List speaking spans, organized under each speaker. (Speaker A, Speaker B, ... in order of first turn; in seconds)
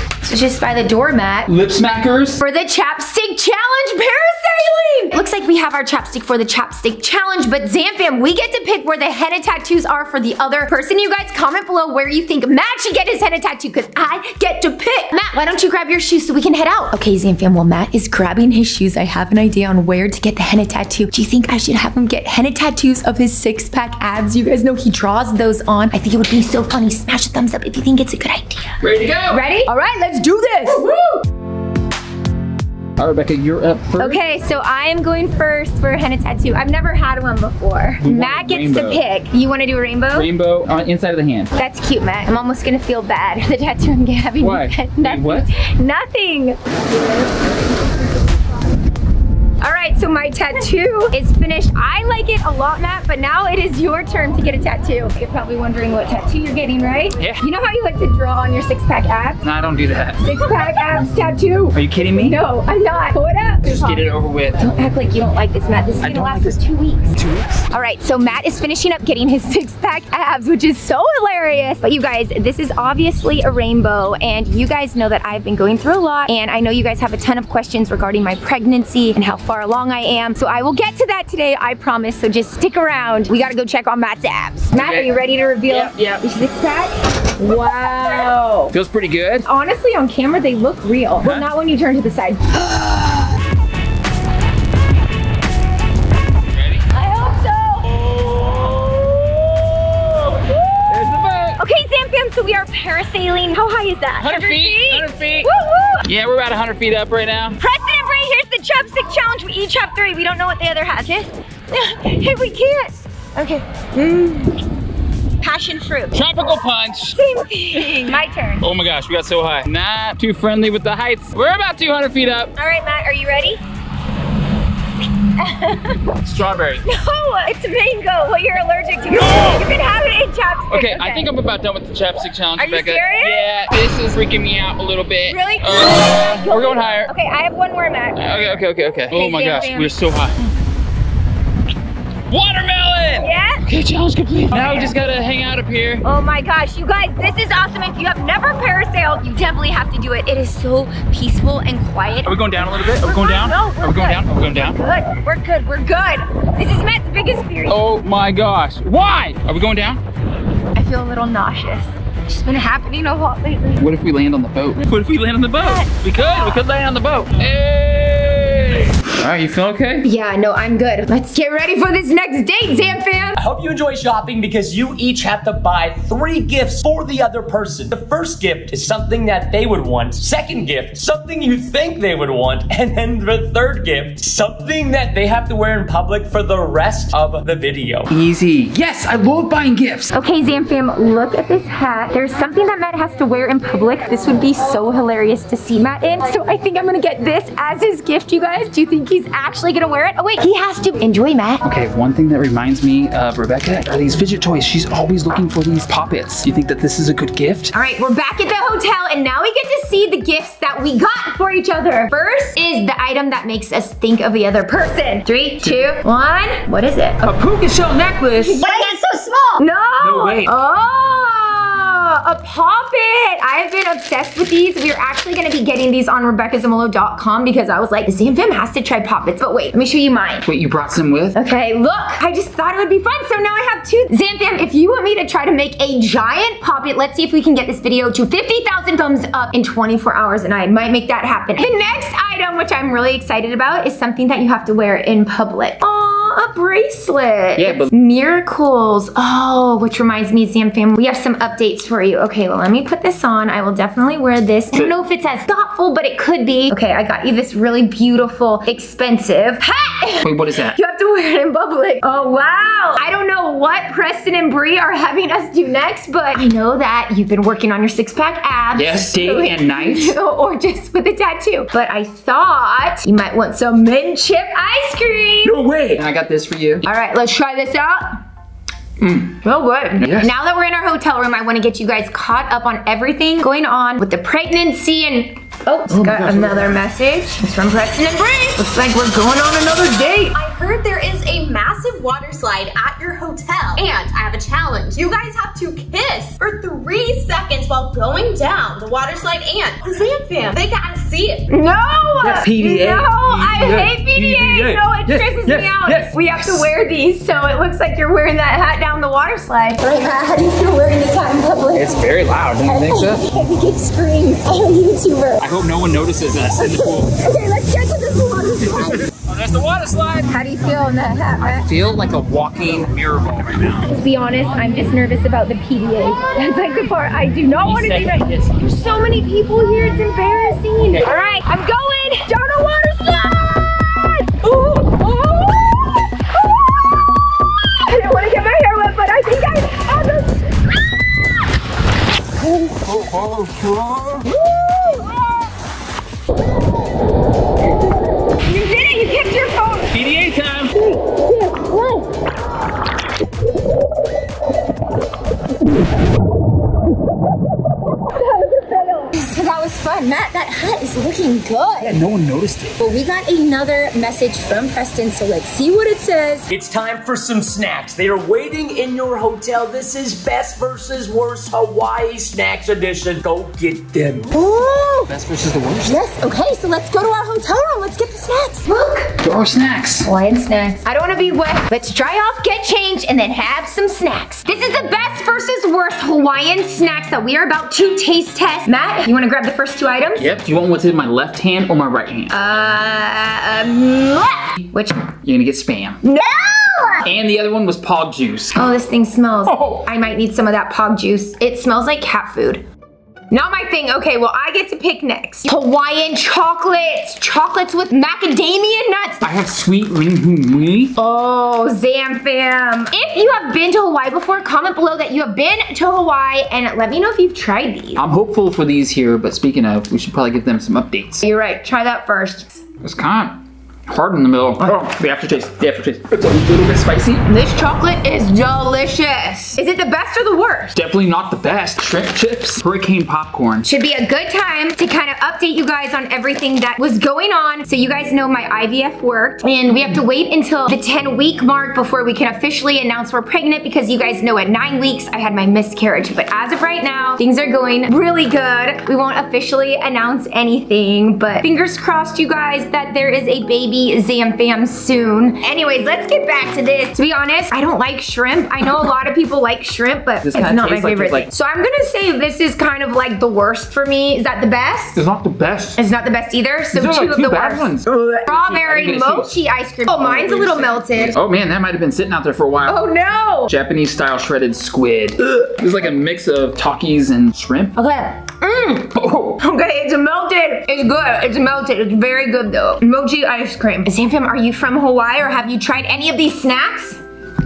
Speaker A: 0.2-1.5, 2.4-30.8, 34.0-40.3, 41.5-46.6, 49.6-59.4, 60.2-64.0, 64.6-67.1, 67.7-88.7, 89.4-92.6, 96.9-97.9, 100.6-100.9, 101.6-106.0, 107.6-114.5, 115.4-116.2, 117.1-118.6, 122.5-123.6, 125.4-126.1, 126.8-131.3, 132.6-133.5, 135.3-140.0, 143.2-143.6, 144.5-144.9, 146.0-157.8, 160.7-163.8, 165.6-166.6, 170.0-173.4, 190.1-201.6, 207.7-217.3, 219.6-230.5, 231.3-275.5, 276.8-278.1, 279.4-290.4, 301.5-312.1, 312.6-315.4, 316.8-319.1, 320.3-321.7, 323.8-336.0, 337.8-340.5, 344.3-345.1, 348.4-349.9, 350.8-352.1, 358.1-362.0, 362.8-366.5, 374.3-375.1, 375.9-379.1, 380.0-390.3, 392.3-395.0, 396.0-397.1, 398.5-402.6, 403.3-409.2, 411.0-418.0, 421.2-422.6, 427.3-430.8, 433.6-465.0, 465.8-467.7, 468.2-471.1, 472.7-473.5, 477.8-487.0
Speaker B: 1.4-2.4, 28.8-29.4, 33.0-34.2, 38.0-39.0, 40.1-41.5, 44.4-45.5, 59.4-60.8, 61.7-62.4, 63.6-64.6, 66.0-66.6, 67.1-67.7, 84.7-85.1, 85.7-86.2, 88.7-89.4, 96.5-96.8, 98.0-98.7, 100.9-101.6, 104.2-105.5, 106.0-107.6, 116.1-117.2, 117.7-122.5, 126.2-126.8, 129.1-129.7, 130.7-137.1, 138.2-140.3, 142.3-146.0, 152.2-154.8, 157.7-160.0, 163.8-170.1, 188.1-190.1, 201.6-207.7, 217.2-218.6, 220.0-220.5, 230.5-231.4, 247.6-247.9, 260.2-260.8, 268.8-270.1, 275.4-276.9, 279.0-279.4, 280.0-280.3, 285.9-286.8, 302.2-306.7, 311.8-313.2, 315.4-317.1, 318.6-320.3, 321.4-324.0, 327.6-328.6, 330.9-331.1, 342.6-344.2, 349.9-350.7, 361.8-362.8, 375.1-376.0, 379.2-380.1, 390.2-392.3, 395.2-396.0, 397.0-398.6, 399.5-399.8, 409.2-410.9, 418.0-421.2, 422.8-427.2, 430.7-433.6, 460.2-461.3, 465.0-465.8, 466.7-469.3, 469.9-472.8, 473.4-477.8, 478.9-479.4
Speaker C: 30.9-31.2, 218.6-219.6, 290.3-301.5
Speaker D: 173.4-188.1, 366.5-374.3